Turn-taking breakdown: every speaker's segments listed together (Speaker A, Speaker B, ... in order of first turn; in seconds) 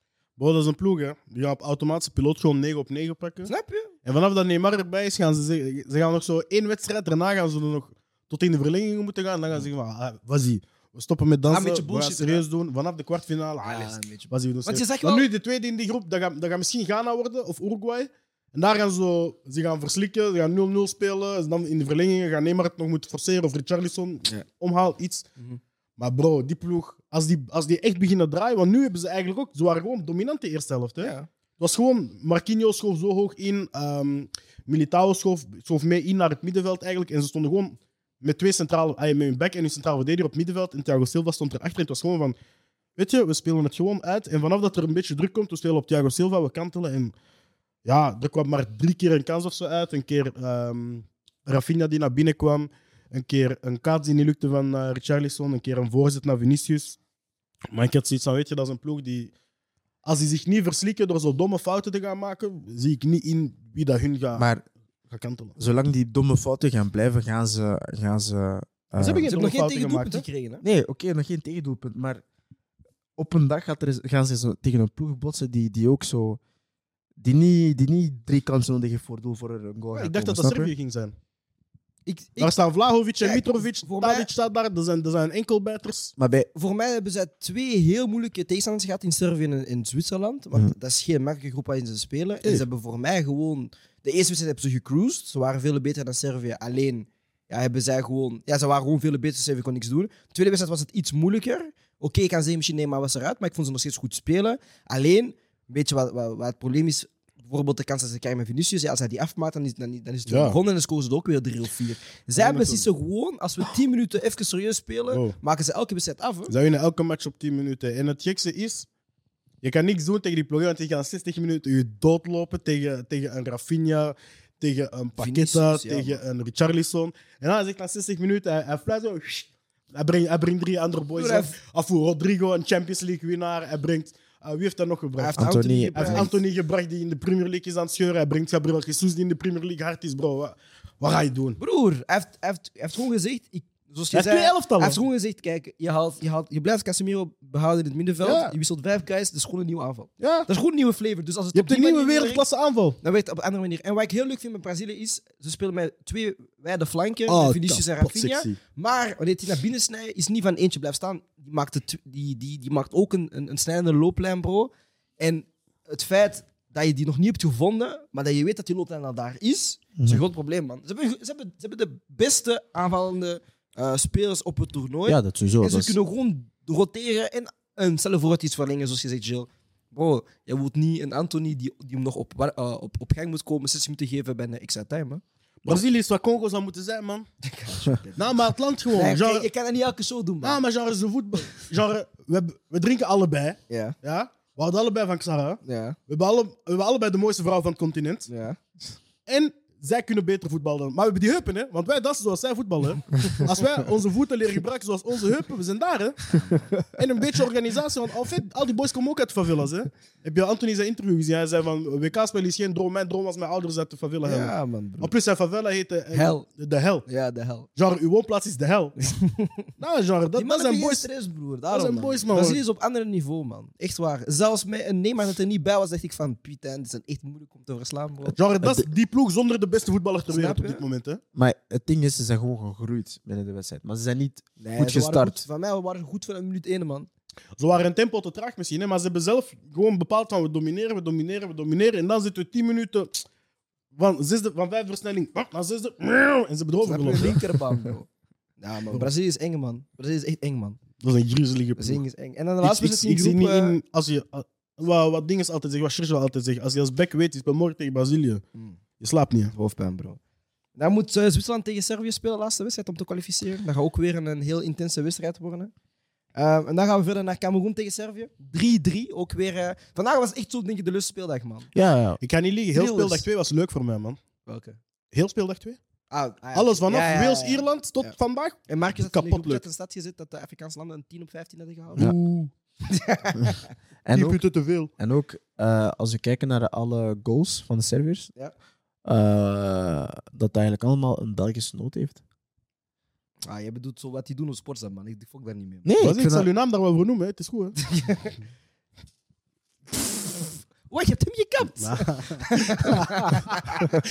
Speaker A: 0.4-3.5, 4.0-25.3, 26.0-42.4, 43.0-47.1, 47.9-57.0, 57.7-59.3, 60.0-64.5, 65.1-65.6, 69.0-70.2, 79.9-81.1, 82.4-86.1, 110.3-110.6, 112.4-112.9, 115.1-115.4, 116.5-118.9, 119.6-141.6, 144.1-145.0, 148.3-148.5, 150.2-150.5, 151.6-153.0, 157.3-158.6, 185.6-187.3, 188.2-189.5, 190.4-198.3, 199.3-217.1, 217.8-219.0, 219.8-221.1, 221.7-222.6, 228.4-231.2, 237.6-243.2, 243.9-247.4, 251.0-252.0, 252.6-258.4, 259.0-259.6, 272.2-274.2, 275.1-275.8, 276.5-279.6, 282.0-282.5, 284.1-284.9, 296.0-297.8, 301.8-303.8
Speaker B: 3.5-3.9, 11.5-12.4, 13.6-15.3, 31.0-31.3, 69.3-70.6, 82.1-82.5, 83.2-84.3, 86.5-116.5, 125.2-126.2, 131.2-131.6, 135.2-136.3, 141.6-152.4, 153.0-185.2, 187.4-188.4, 188.9-190.6, 193.7-193.9, 195.6-196.0, 198.3-198.6, 206.3-206.7, 214.2-215.1, 216.1-216.4, 217.1-217.7, 219.0-219.7, 220.4-228.4, 230.3-230.8, 234.6-237.1, 246.8-250.8, 251.8-253.8, 259.5-260.2, 260.8-265.7, 266.4-271.7, 272.8-273.2, 274.4-274.8, 276.1-278.1, 278.7-282.1, 282.8-283.7, 293.4-295.9, 297.8-298.4, 300.9-303.8
Speaker C: 64.3-64.6, 65.6-69.3, 70.6-72.2, 73.2-76.4, 77.2-80.7, 86.2-86.5, 135.4-136.4, 175.1-175.9, 231.3-235.4, 271.7-272.2, 272.8-273.1, 284.1-284.4, 285.0-288.3, 289.1-292.2, 295.9-296.5